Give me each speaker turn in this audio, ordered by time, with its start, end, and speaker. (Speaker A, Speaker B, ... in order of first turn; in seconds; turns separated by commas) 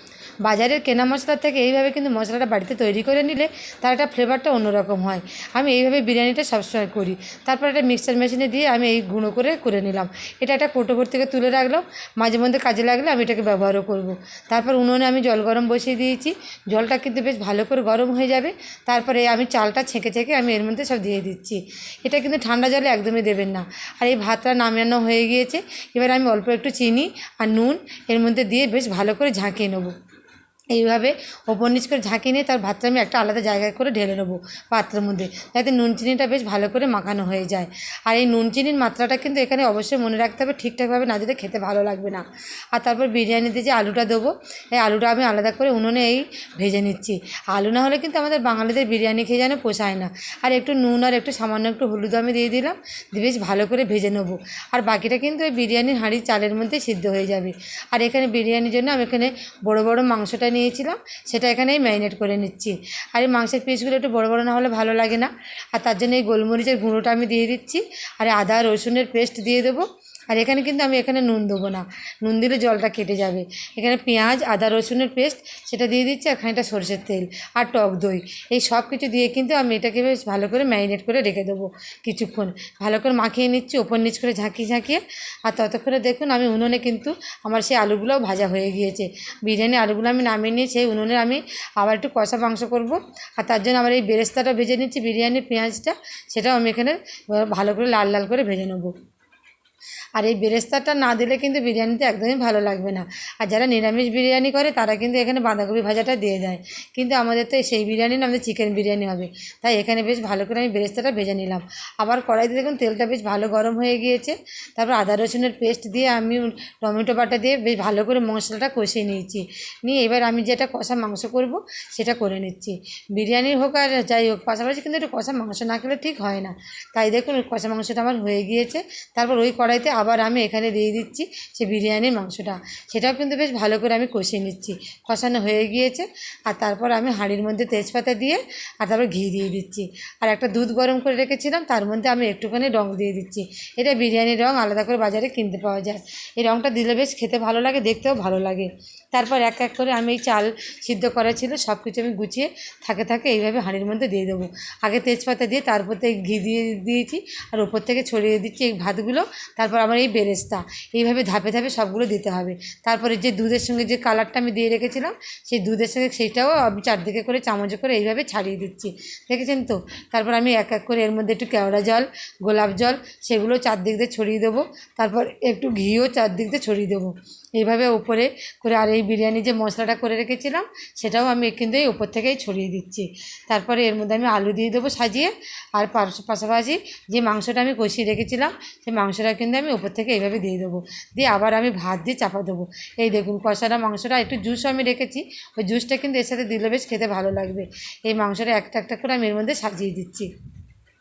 Speaker A: 0.4-29.9, Speaker A: 30.7-98.9, Speaker A: 100.2-200.3